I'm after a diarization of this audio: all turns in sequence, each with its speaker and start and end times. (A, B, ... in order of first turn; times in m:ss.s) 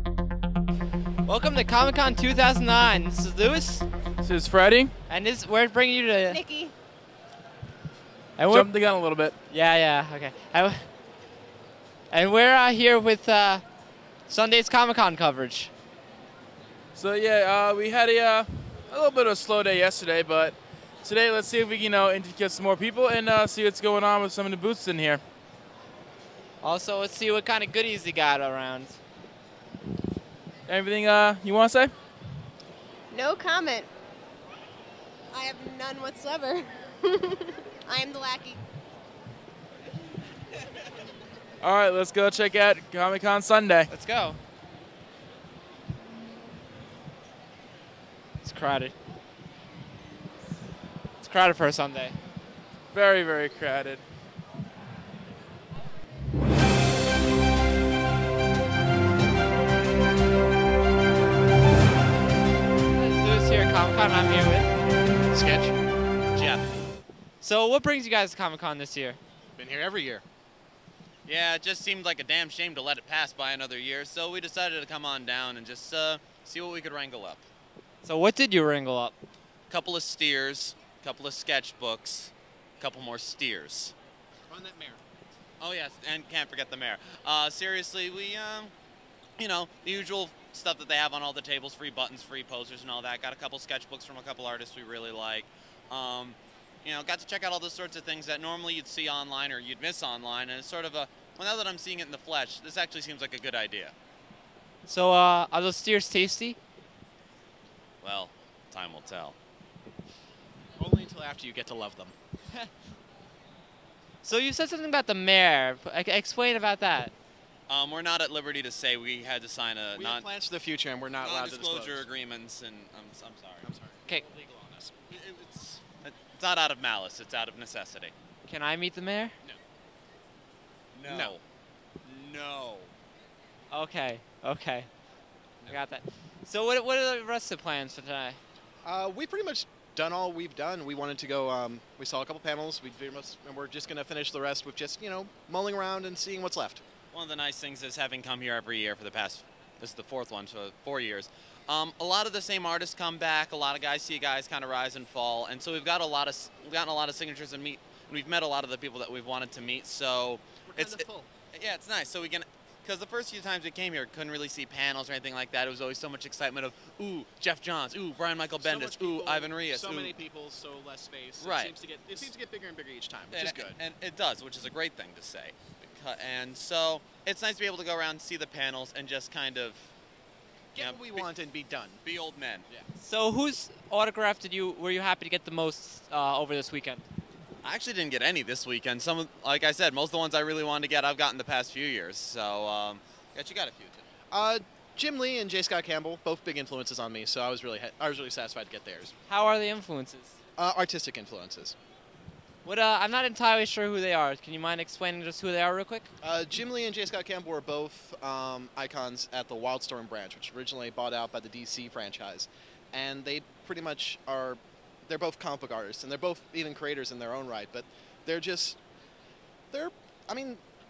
0:01.2-0:03.8 A
0:04.2-0:04.9 B
0:05.1-0:06.4 A
0:06.3-0:06.7 C
0:08.4-0:08.7 A
0:08.5-0:09.3 B
0:09.5-0:10.8 A
0:12.1-0:13.6 A
0:14.3-0:15.7 A
0:17.0-0:25.2 B
0:26.6-0:29.0 A
0:30.7-0:31.9 B
0:33.1-0:33.9 C
0:35.3-0:38.6 C
0:41.6-0:43.9 B
0:43.9-0:44.4 A
0:48.4-0:48.9 A
0:51.2-0:52.2 A
0:52.9-0:54.0 B
1:02.9-1:04.7 A
1:05.3-1:05.7 D
1:06.3-1:06.7 E
1:07.4-1:09.2 A
1:09.6-1:10.2 D
1:11.3-1:17.4 E
1:18.0-1:19.2 A
1:19.7-1:23.9 E
1:24.5-1:25.0 D
1:25.6-1:28.7 E
1:29.4-1:43.9 E
1:44.9-1:46.6 A
1:48.0-1:49.3 E
1:50.8-1:52.1 D
1:54.2-1:57.1 A
1:57.7-2:00.3 E
1:59.9-2:02.1 D
2:01.2-2:03.7 E
2:03.6-2:05.2 D
2:05.1-2:08.1 E
2:08.5-2:09.3 A
2:10.9-2:11.4 E
2:11.1-2:11.3 D
2:12.0-2:12.9 E
2:13.7-2:14.9 A
2:15.7-2:18.4 A
2:18.8-2:26.8 D
2:27.1-2:50.2 E
2:40.7-2:41.3 D
2:48.6-2:53.8 D
2:51.4-2:52.3 E
2:53.3-2:59.9 E
3:00.7-3:02.0 D
3:00.8-3:01.3 E
3:02.0-3:02.7 E
3:03.0-3:07.0 A
3:07.6-3:14.1 E
3:14.3-3:19.1 D
3:19.3-3:20.4 A
3:20.6-3:21.8 D
3:22.6-3:26.1 A
3:26.2-3:38.8 D
3:39.7-3:40.6 D